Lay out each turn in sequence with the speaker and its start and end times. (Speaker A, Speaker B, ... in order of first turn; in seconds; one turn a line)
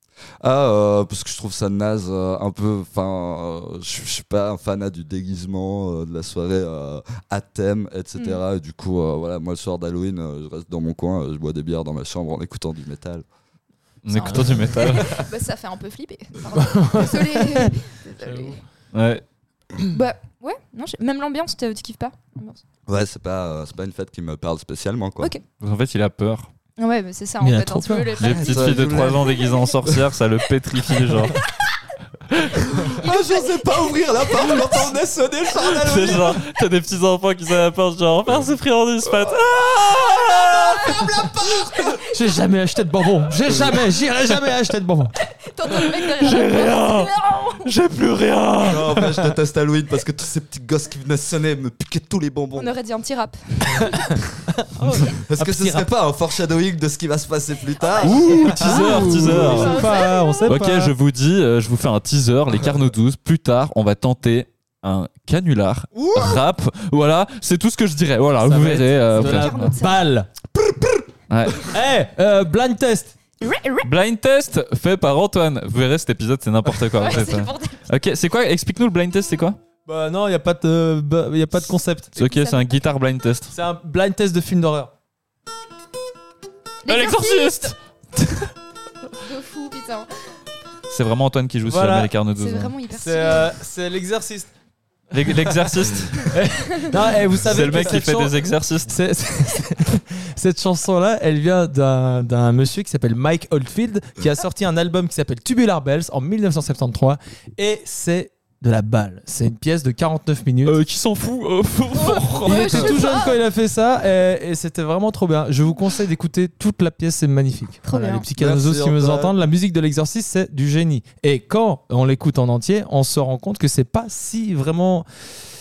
Speaker A: 0.4-13.2
Speaker B: 14.0-15.2
Speaker C: 14.1-18.6
Speaker D: 16.5-18.6
Speaker B: 18.9-19.2
Speaker C: 19.9-22.6
Speaker A: 22.9-25.3
Speaker B: 25.6-26.5
Speaker C: 26.8-29.6
Speaker D: 27.4-28.2
Speaker B: 28.2-31.4
Speaker A: 28.2-30.0
Speaker B: 32.3-32.6
Speaker A: 32.8-36.4
Speaker C: 33.0-34.9
Speaker C: 35.6-36.4
Speaker B: 35.8-41.1
Speaker A: 39.2-41.9
Speaker D: 42.1-45.1
Speaker C: 45.4-47.7
Speaker B: 45.7-47.1
Speaker B: 47.6-49.1
Speaker A: 48.6-52.7
Speaker C: 52.6-54.2
Speaker D: 54.5-55.9
Speaker A: 55.1-59.7
Speaker C: 57.8-60.5
Speaker B: 58.0-69.7
Speaker D: 58.5-60.9
Speaker A: 65.9-66.4
Speaker D: 68.4-70.3
Speaker C: 69.1-70.0
Speaker B: 71.3-71.7
Speaker D: 71.6-73.1
Speaker C: 73.4-73.9
Speaker B: 73.8-79.6
Speaker C: 76.7-77.9
Speaker D: 79.8-82.2
Speaker B: 82.2-83.5
Speaker C: 82.2-82.8
Speaker D: 83.5-84.9
Speaker C: 86.8-87.7
Speaker B: 86.9-88.5
Speaker C: 89.2-90.3
Speaker B: 90.9-92.7
Speaker D: 91.7-92.1
Speaker C: 92.4-93.5
Speaker D: 92.9-94.5
Speaker B: 95.1-96.3
Speaker D: 95.2-110.8
Speaker B: 97.4-98.9
Speaker B: 110.6-113.0
Speaker C: 111.9-113.4
Speaker D: 112.4-125.0
Speaker C: 117.8-118.2
Speaker A: 118.3-119.3